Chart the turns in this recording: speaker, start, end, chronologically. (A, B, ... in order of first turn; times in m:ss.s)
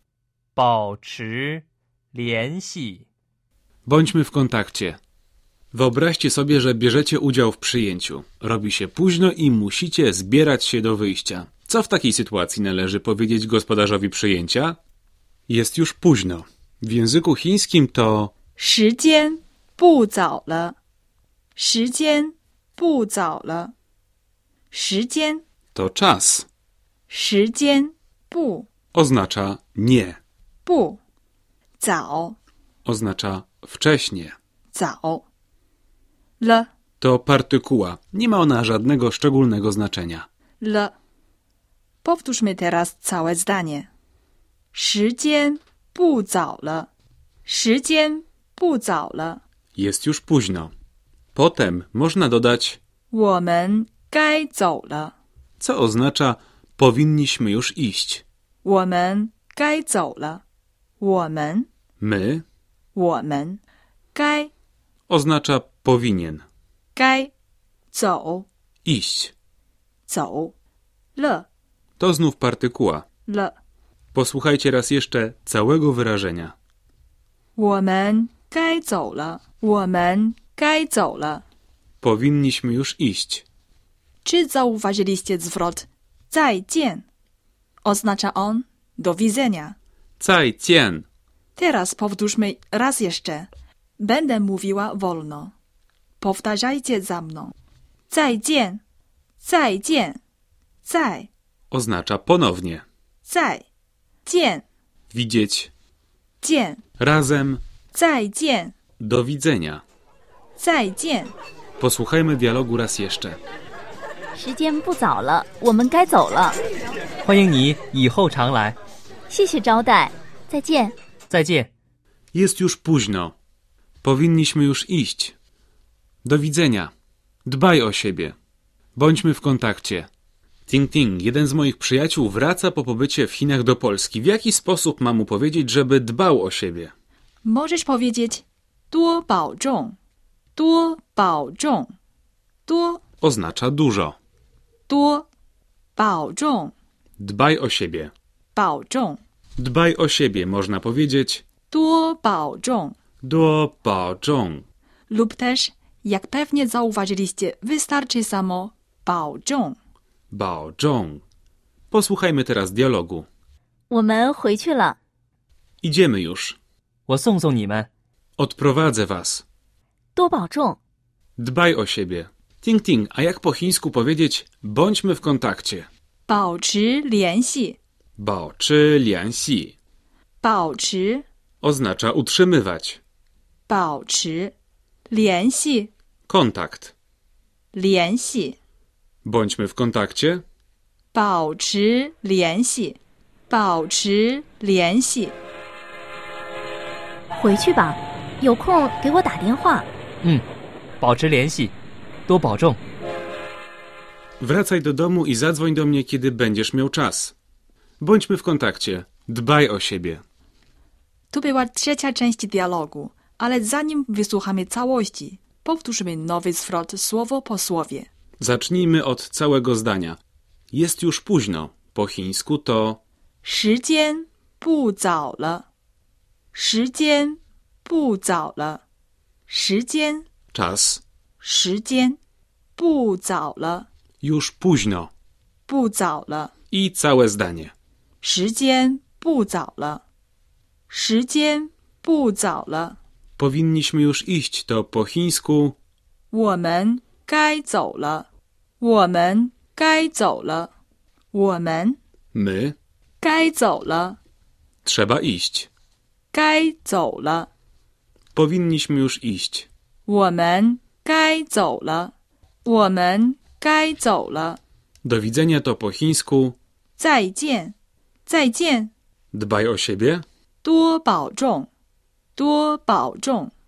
0:00.6-0:03.1 A
0:03.9-0:05.0 B
0:05.7-0:14.8 B
0:15.5-0:18.3 B
0:18.6-0:20.8 C
0:21.6-0:23.7 C
0:24.7-0:25.4 C
0:25.8-0:26.5 B
0:27.1-0:28.7 C
0:28.9-0:30.2 B
0:30.6-0:31.0 C
0:31.8-0:32.4 C
0:32.8-0:34.4 B
0:34.7-0:35.2 C
0:36.4-0:36.7 C
0:37.0-0:40.3 B
0:40.6-0:40.9 C
0:42.0-0:43.9 C
0:44.7-0:46.9 C
0:47.5-0:49.4 C
0:49.8-0:50.7 B
0:51.4-0:52.8 B
0:53.1-0:55.2 C
0:55.6-0:58.2 B
0:58.6-1:00.4 C
1:01.0-1:01.7 C
1:02.0-1:02.4 B
1:03.0-1:03.6 C
1:04.1-1:04.5 C
1:05.1-1:06.4 B
1:07.0-1:07.3 C
1:07.9-1:08.5 C
1:08.8-1:09.3 B
1:10.1-1:10.5 C
1:11.2-1:11.5 C
1:12.0-1:13.1 B
1:13.3-1:13.5 C
1:14.1-1:16.5 B
1:17.6-1:21.4 C
1:22.0-1:23.4 B
1:24.2-1:27.1 C
1:27.8-1:29.8 C
1:30.2-1:31.1 B
1:31.6-1:35.5 C
1:36.2-1:37.5 C
1:38.1-1:38.8 C
1:39.4-1:40.2 C
1:40.8-1:41.3 C
1:41.7-1:42.8 B
1:43.2-1:43.7 C
1:44.2-1:44.7 C
1:45.1-1:45.7 B
1:46.4-1:46.8 C
1:47.0-1:47.6 B
1:47.9-1:48.8 C
1:49.0-1:49.8 B
1:50.6-1:51.4 C
1:51.8-1:53.4 B
1:54.4-1:56.6 D
1:57.2-1:58.8 A
1:59.3-2:01.0 D
2:01.3-2:01.7 A
2:02.3-2:03.4 B
2:04.0-2:05.4 B
2:06.2-2:06.9 B
2:07.5-2:08.4 B
2:09.0-2:10.1 B
2:10.7-2:16.9 B
2:17.4-2:20.0 C
2:20.6-2:21.9 C
2:22.7-2:23.0 C
2:23.2-2:24.2 B
2:24.9-2:25.3 C
2:26.0-2:26.7 C
2:27.2-2:28.1 B
2:28.5-2:29.2 C
2:29.6-2:31.4 B
2:31.7-2:33.0 C
2:33.2-2:34.7 B
2:35.1-2:39.8 C
2:40.3-2:41.2 B
2:41.9-2:43.3 B
2:43.9-2:45.0 D
2:45.8-2:46.6 B
2:47.1-2:47.9 A
2:48.4-2:49.4 B
2:50.2-2:50.8 D
2:51.4-2:55.9 B
2:56.3-2:57.8 C
2:58.2-2:59.8 B
3:00.4-3:01.2 C
3:01.6-3:03.0 B
3:03.7-3:04.6 C
3:05.1-3:05.9 C
3:06.3-3:06.9 B
3:07.7-3:08.6 C
3:09.2-3:10.4 B
3:11.1-3:15.4 C
3:17.3-3:19.9 D
3:21.0-3:21.8 A
3:22.3-3:22.8 A
3:24.4-3:27.3 B
3:28.0-3:30.2 B
3:31.3-3:38.1 C
3:38.4-3:40.2 B
3:40.7-3:43.0 B
3:43.4-3:45.7 C
3:46.5-3:48.8 C
3:49.5-3:50.3 C
3:50.5-3:51.0 B
3:51.4-3:52.2 C
3:52.8-3:53.9 C
3:54.2-3:55.1 B
3:55.7-3:56.5 C
3:56.7-3:57.7 B
3:58.2-4:00.0 C
4:00.9-4:03.0 C
4:03.4-4:05.8 B
4:06.3-4:08.3 C
4:08.8-4:10.7 C
4:11.3-4:12.0 C
4:12.3-4:12.8 B
4:13.2-4:14.2 C
4:14.8-4:15.7 B
4:16.3-4:17.5 C
4:18.4-4:19.7 B
4:20.1-4:22.1 C
4:22.6-4:24.6 C
4:25.0-4:26.6 B
4:27.0-4:28.9 C
4:29.3-4:30.2 B
4:30.6-4:31.7 C
4:32.4-4:33.5 C